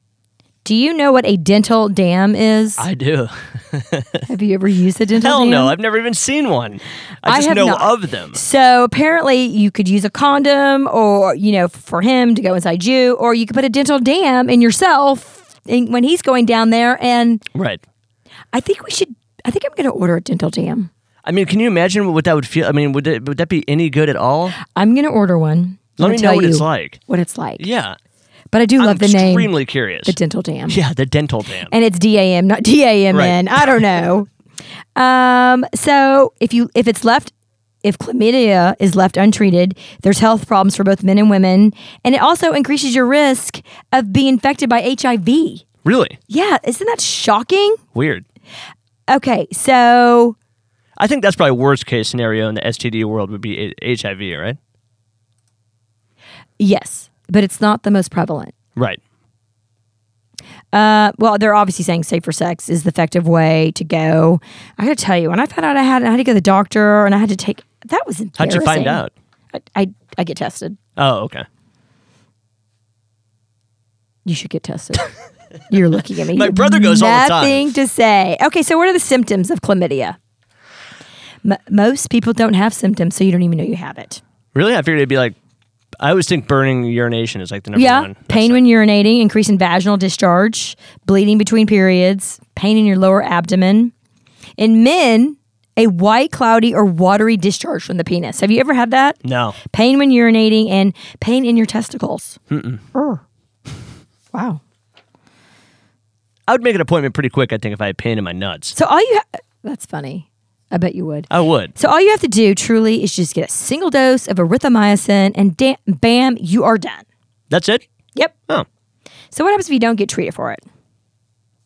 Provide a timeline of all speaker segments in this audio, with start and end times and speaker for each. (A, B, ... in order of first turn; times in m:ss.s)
0:00.6-0:02.8 A
0:02.8-0:04.2 B
0:04.3-0:05.7 A
0:05.2-0:08.4 B
0:07.2-0:17.4 A
0:17.5-0:17.8 B
0:18.5-0:20.9 A
0:21.2-0:24.6 B
0:24.6-0:27.6 A
0:26.0-0:27.0 B
0:27.6-0:28.0 B
0:28.5-0:29.5 A
0:28.8-0:30.2 B
0:30.0-0:30.8 A
0:30.7-0:31.7 B
0:31.7-0:34.3 A
0:35.0-0:37.3 A
0:37.8-0:45.6 A
0:45.8-0:46.2 B
0:46.3-0:47.8 A
0:47.9-0:48.2 B
0:49.1-0:50.4 A
0:51.0-0:54.6 B
0:56.6-0:58.5 A
1:00.7-1:10.8 A
1:08.4-1:09.1 B
1:11.0-1:11.4 B
1:14.2-1:15.1 A
1:15.7-1:20.2 A
1:16.3-1:17.6 B
1:21.4-1:24.2 A
1:24.5-1:25.3 B
1:26.0-1:28.6 B
1:27.7-1:33.9 A
1:34.6-1:42.4 A
1:39.2-1:39.6 B
1:42.5-1:42.8 B
1:42.9-1:43.2 A
1:44.3-1:44.6 A
1:46.5-1:48.8 B
1:48.7-1:57.0 A
1:51.3-1:51.7 B
1:57.5-1:57.8 B
1:59.3-2:00.6 A